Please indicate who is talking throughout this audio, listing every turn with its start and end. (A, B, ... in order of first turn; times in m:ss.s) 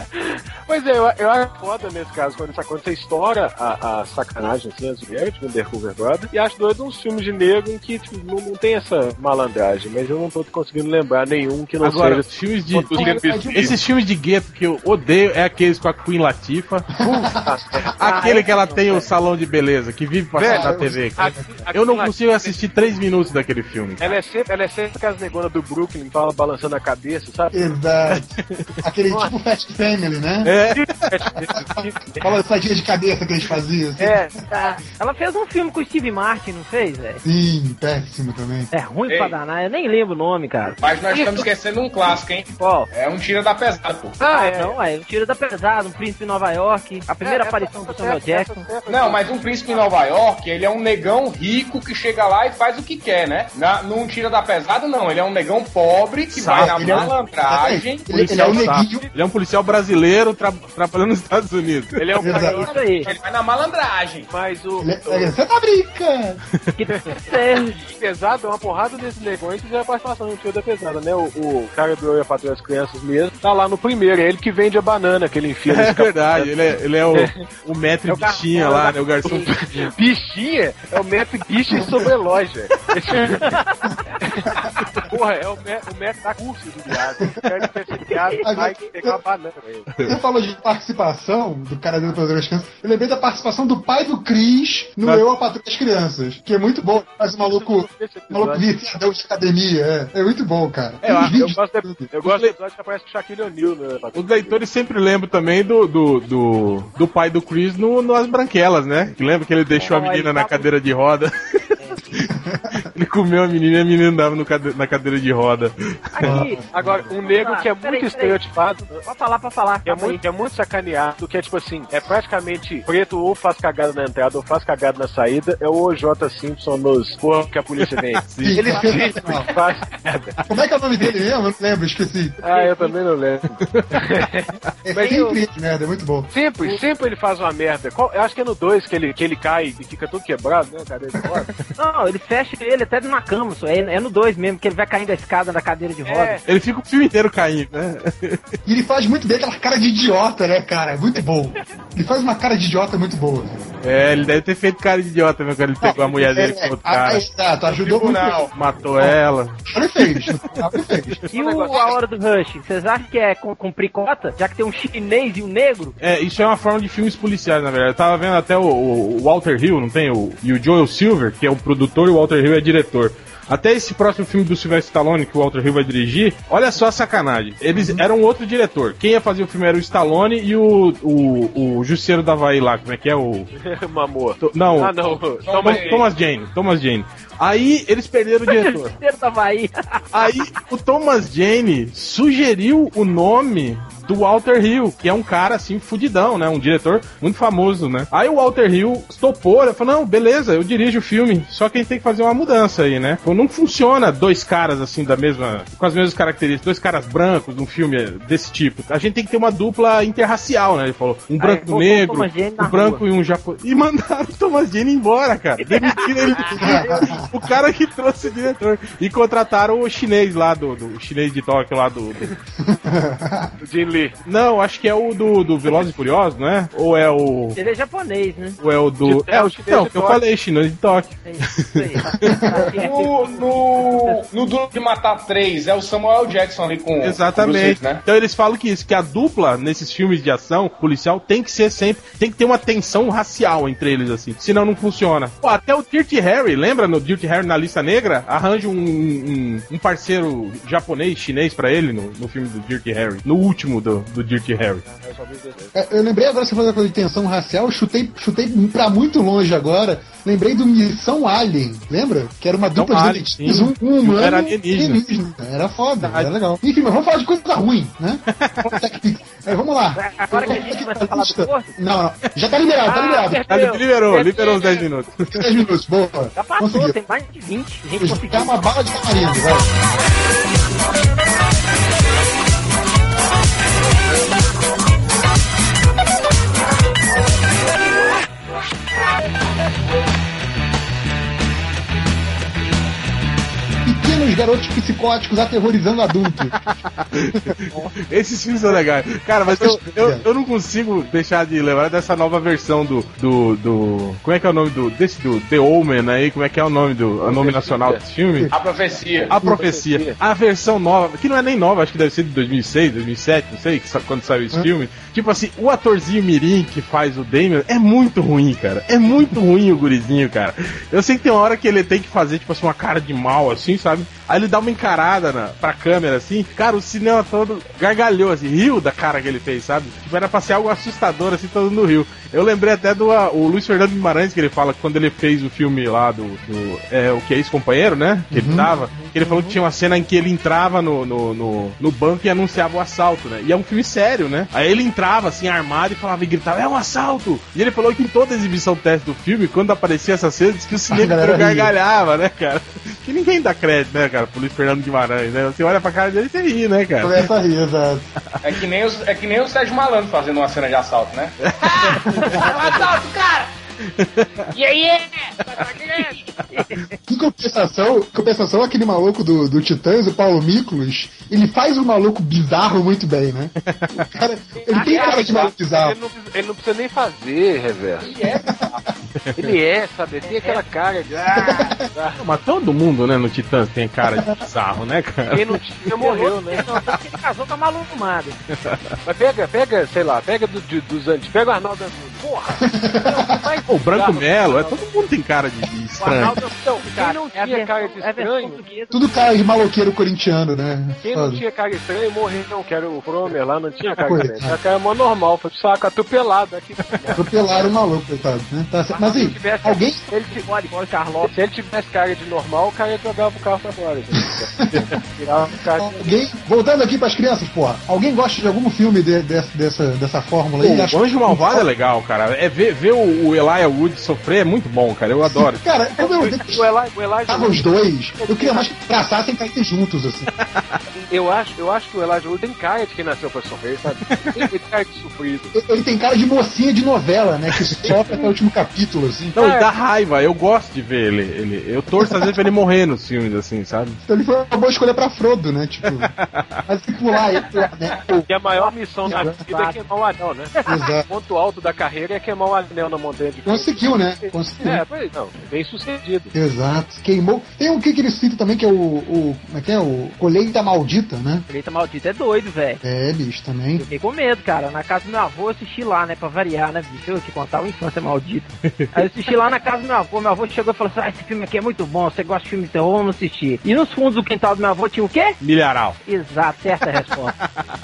0:00.1-0:13.8 A
0:11.8-0:16.9 B
0:12.9-0:13.8 C
0:17.0-0:18.2 A
0:17.0-0:17.5 C
0:18.0-0:24.2 B
0:18.0-0:19.1 D
0:20.4-0:22.6 A
0:20.4-0:21.5 C
0:24.0-0:27.6 A
0:27.5-0:28.3 C
0:28.8-0:30.5 C
0:30.4-0:31.0 B
0:30.7-0:32.3 A
0:31.5-0:34.4 C
0:34.0-0:34.3 A
0:34.5-0:37.2 D
0:37.2-0:38.7 C
0:38.7-0:40.8 D
0:39.1-0:39.4 E
0:40.8-0:44.2 E
0:41.1-0:41.4 A
0:42.6-0:42.9 D
0:44.2-0:44.8 A
0:44.3-0:48.6 D
0:47.2-0:50.1 A
0:48.9-0:58.3 E
0:56.3-0:57.1 B
0:56.5-0:59.1 C
0:58.1-1:02.0 B
0:58.5-0:59.1 A
1:02.0-1:03.2 A
1:02.2-1:02.7 C
1:02.3-1:03.1 D
1:03.0-1:04.3 E
1:04.3-1:05.3 A
1:04.8-1:06.4 C
1:06.8-1:07.8 D
1:07.0-1:17.4 A
1:15.6-1:19.9 B
1:18.1-1:23.6 A
1:18.6-1:19.5 D
1:23.5-1:23.8 D
1:24.2-1:29.9 A
1:28.1-1:28.4 D
1:28.4-1:29.2 C
1:30.0-1:42.1 C
1:37.5-1:38.6 A
1:41.0-1:41.4 B
1:41.2-1:44.6 A
1:42.2-1:42.5 B
1:44.1-1:56.3 B
1:49.8-1:50.7 D
1:52.3-1:52.8 C
1:56.1-1:56.6 D
1:56.2-1:57.1 C
1:56.7-1:59.0 A
1:57.2-1:58.4 D
1:59.0-2:00.2 D
1:59.8-2:10.4 A
2:07.8-2:08.8 B
2:08.4-2:09.5 C
2:10.5-2:12.4 C
2:12.4-2:15.2 A
2:12.4-2:12.9 D
2:13.7-2:14.0 B
2:14.8-2:16.3 C
2:15.0-2:15.4 D
2:16.3-2:21.5 A
2:21.8-2:26.4 D
2:26.0-2:26.4 A
2:26.4-2:28.5 B
2:28.6-2:33.6 C
2:33.8-2:37.2 B
2:35.8-2:38.5 C
2:37.6-2:38.5 E
2:38.5-2:40.6 B
2:39.0-2:41.2 C
2:41.3-2:42.0 A
2:41.3-2:45.9 D
2:46.0-3:03.5 B
2:57.7-2:58.0 C
3:03.6-3:05.9 A
3:04.4-3:05.0 B
3:05.4-3:06.1 E
3:05.6-3:08.9 B
3:08.5-3:10.4 D
3:10.1-3:42.3 B
3:31.4-3:33.0 D
3:35.6-3:37.1 D
3:36.5-3:37.3 C
3:42.6-3:43.5 C
3:43.6-3:44.2 A
3:44.2-3:47.6 B
3:47.6-3:48.6 D
3:48.6-3:52.4 B
3:49.0-3:50.2 A
3:51.2-3:54.2 D
3:52.2-3:52.5 C
3:52.7-3:58.0 E
3:57.0-4:14.8 B
4:14.8-4:15.8 A
4:15.7-4:33.5 C
4:22.7-4:25.0 B
4:26.0-4:26.3 B
4:28.4-4:28.7 B
4:29.9-4:31.7 D
4:32.9-4:34.8 D
4:33.4-4:35.4 B
4:35.3-4:37.0 C
4:36.3-4:38.6 D
4:38.0-4:39.7 C
4:53.8-4:56.6 C
4:56.5-5:08.5 B
4:59.4-5:00.2 C
5:07.2-5:08.0 A
5:08.5-5:09.3 E
5:09.3-5:57.3 B
5:09.4-5:10.2 A
5:38.3-5:38.7 C
5:38.9-5:39.5 D
5:50.9-5:51.7 C
5:57.0-5:58.1 C
5:58.4-6:03.5 E
6:01.4-6:02.2 B
6:02.0-6:02.4 C
6:02.2-6:02.7 D
6:03.9-6:04.5 B
6:04.5-6:05.3 E
6:05.6-6:06.1 A
6:06.5-6:06.9 D
6:07.1-6:16.0 C
6:13.6-6:14.1 B
6:14.7-6:15.5 D
6:14.7-6:18.1 A
6:18.0-6:18.8 E
6:18.4-6:18.7 C
6:19.2-6:19.6 B
6:19.4-6:22.2 A
6:20.2-6:20.6 D
6:21.3-6:21.8 C
6:22.2-6:25.6 B
6:24.0-6:24.4 C
6:25.3-6:26.7 A
6:26.0-6:28.4 D
6:28.5-6:28.9 B
6:29.0-6:34.9 A
6:32.6-6:33.5 C
6:33.7-6:36.4 B
6:36.0-6:39.3 D
6:36.0-6:38.6 A
6:38.9-6:41.4 C
6:41.0-6:47.6 A
6:44.0-6:44.6 C
6:47.1-6:50.1 C
6:48.9-6:51.3 D
6:51.2-6:56.2 A
6:54.7-6:54.9 C
6:55.8-7:01.6 C
7:00.6-7:05.6 B
7:05.2-7:06.7 C
7:06.0-7:07.6 A
7:07.2-7:10.3 C
7:08.2-7:08.7 A
7:10.4-7:10.8 B
7:10.9-7:15.5 A
7:14.1-7:14.5 B
7:15.5-7:19.3 C
7:17.6-7:18.0 B
7:19.3-7:24.0 B
7:19.4-7:19.7 A
7:22.0-7:22.4 C
7:24.0-7:26.1 C
7:25.8-7:26.6 B
7:26.6-7:28.3 C
7:28.3-7:36.3 A
7:28.5-7:29.8 D
7:29.1-7:29.4 C
7:30.6-7:31.0 C
7:33.4-7:34.8 C
7:36.3-7:41.5 C
7:41.5-7:42.8 D
7:42.8-7:43.8 C
7:43.8-7:55.4 D
7:55.4-7:56.0 B
7:56.0-7:57.3 D